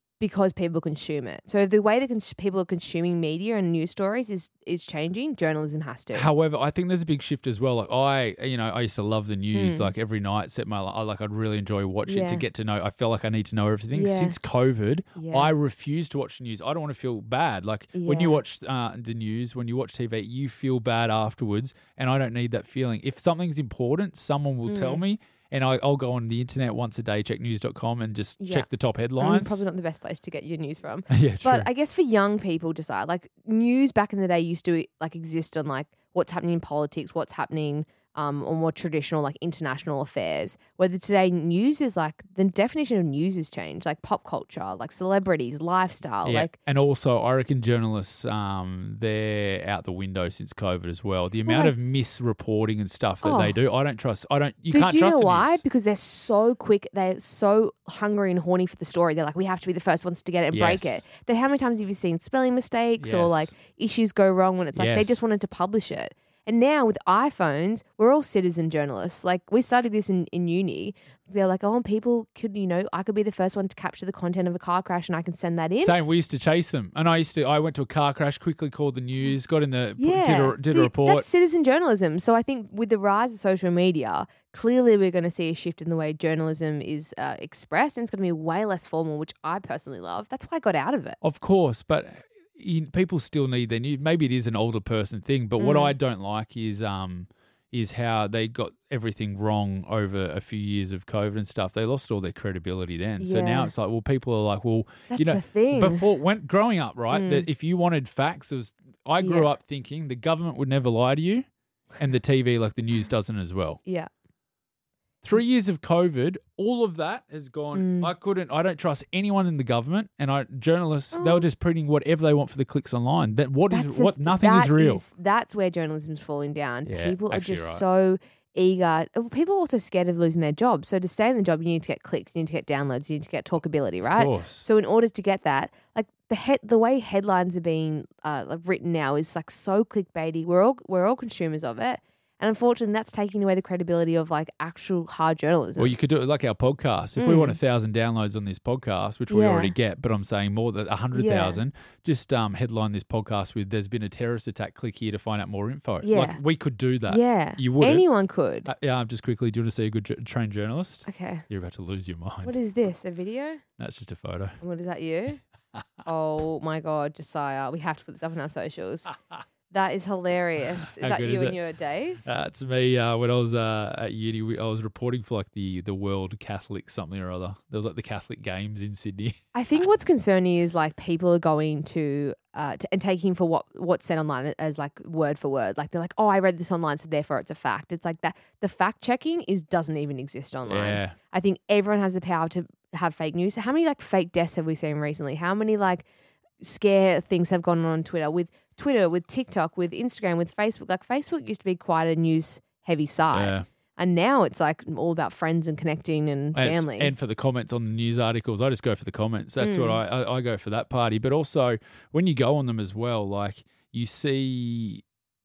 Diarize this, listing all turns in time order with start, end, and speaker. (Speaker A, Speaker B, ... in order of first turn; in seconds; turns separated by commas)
Speaker A: 0.2-6.3, Speaker B: 6.1-29.6, Speaker A: 9.5-9.9, Speaker A: 12.1-12.4, Speaker A: 13.9-14.4, Speaker A: 15.2-15.5, Speaker A: 17.9-18.4, Speaker A: 24.7-25.0, Speaker A: 28.4-28.7, Speaker A: 29.2-46.5, Speaker B: 31.1-31.7, Speaker B: 46.2-55.6, Speaker A: 51.5-51.7, Speaker A: 53.2-53.5, Speaker A: 54.7-76.0, Speaker B: 60.5-61.0, Speaker B: 63.0-63.5, Speaker B: 64.7-65.2, Speaker B: 75.8-81.2, Speaker A: 80.0-91.2, Speaker B: 91.2-111.5, Speaker A: 95.6-95.9, Speaker A: 103.2-103.7, Speaker A: 105.1-106.0, Speaker A: 107.1-107.5, Speaker A: 109.2-109.5, Speaker B: 112.0-113.8, Speaker B: 115.2-125.0, Speaker A: 117.7-118.1, Speaker A: 121.1-121.5, Speaker A: 123.7-145.9, Speaker B: 126.8-127.8, Speaker B: 134.0-134.6, Speaker B: 145.8-158.1, Speaker A: 147.2-147.6, Speaker A: 149.3-149.7, Speaker A: 151.1-151.6, Speaker A: 156.0-156.4, Speaker A: 157.1-158.7, Speaker B: 158.6-162.5, Speaker A: 161.1-161.4, Speaker A: 162.4-163.6, Speaker B: 163.8-164.6, Speaker A: 164.6-165.4, Speaker A: 166.0-169.1, Speaker A: 169.7-172.3, Speaker B: 170.8-171.6, Speaker B: 172.2-179.4, Speaker A: 179.5-196.1, Speaker B: 190.7-191.2, Speaker A: 196.6-207.1, Speaker B: 203.3-203.7, Speaker B: 206.5-215.0, Speaker A: 209.6-210.0